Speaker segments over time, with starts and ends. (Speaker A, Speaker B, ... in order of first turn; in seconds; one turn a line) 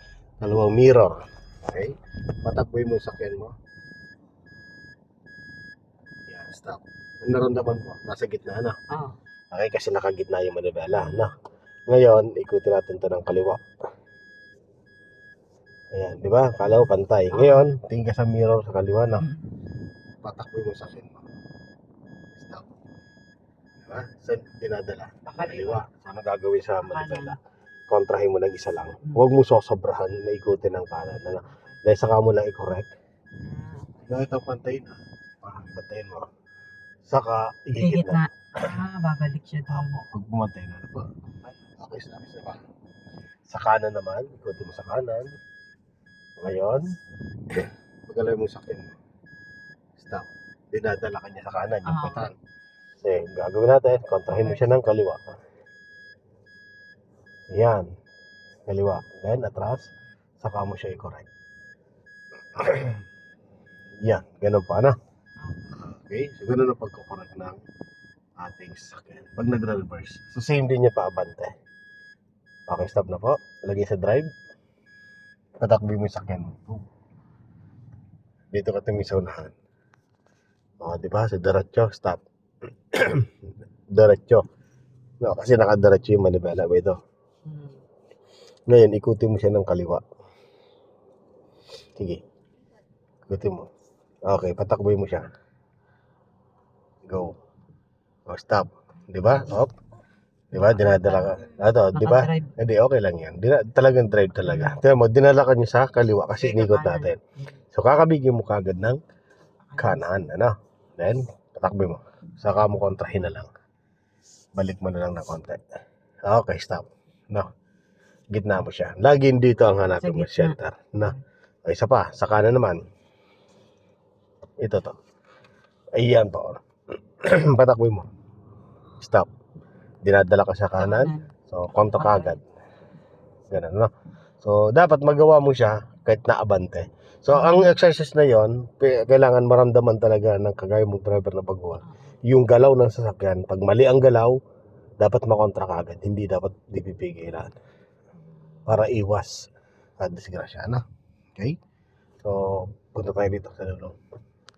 Speaker A: 0.4-3.5
Speaker A: 6.3-8.8
Speaker B: 8.9-9.2
Speaker A: 9.5-11.3
Speaker B: 10.9-11.3
Speaker A: 11.9-13.6
Speaker A: 15.9-19.3
Speaker B: 17.3-17.7
Speaker B: 19.2-19.5
Speaker A: 20.2-21.2
Speaker A: 22.4-22.7
Speaker A: 23.8-27.4
Speaker B: 25.3-25.8
Speaker B: 26.8-27.4
Speaker A: 27.9-32.9
Speaker B: 31.4-31.7
Speaker B: 33.4-33.9
Speaker A: 34.0-36.3
Speaker A: 37.1-38.8
Speaker B: 37.8-40.0
Speaker A: 39.7-42.6
Speaker A: 43.5-45.4
Speaker A: 46.4-47.0
Speaker A: 47.5-49.0
Speaker A: 50.0-52.4
Speaker B: 51.8-52.3
Speaker A: 53.0-55.2
Speaker B: 54.3-54.7
Speaker A: 57.5-57.9
Speaker A: 58.7-61.2
Speaker A: 62.5-63.0
Speaker A: 64.0-65.0
Speaker B: 65.4-65.8
Speaker A: 65.7-67.6
Speaker A: 68.4-71.5
Speaker A: 72.7-74.3
Speaker A: 75.6-76.8
Speaker A: 78.5-79.5
Speaker A: 80.8-82.2
Speaker A: 82.9-83.3
Speaker A: 83.9-84.4
Speaker A: 85.2-87.0
Speaker B: 87.5-87.8
Speaker A: 88.7-90.0
Speaker A: 93.3-93.7
Speaker A: 94.2-95.3
Speaker A: 97.1-97.3
Speaker A: 98.3-99.7
Speaker B: 99.3-99.6
Speaker A: 100.5-109.0
Speaker B: 100.5-102.5
Speaker B: 104.4-104.8
Speaker B: 106.3-107.5
Speaker B: 109.7-110.1
Speaker A: 109.8-113.5
Speaker A: 114.5-115.6
Speaker A: 116.2-117.5
Speaker A: 118.3-122.8
Speaker B: 119.8-121.2
Speaker A: 124.6-125.0
Speaker A: 125.9-128.1
Speaker A: 129.0-129.3
Speaker A: 130.0-132.4
Speaker B: 130.7-132.4
Speaker A: 133.5-144.4
Speaker B: 137.3-137.8
Speaker B: 141.8-142.1
Speaker A: 145.0-147.6
Speaker A: 148.6-149.5
Speaker A: 150.0-151.6
Speaker A: 152.2-154.0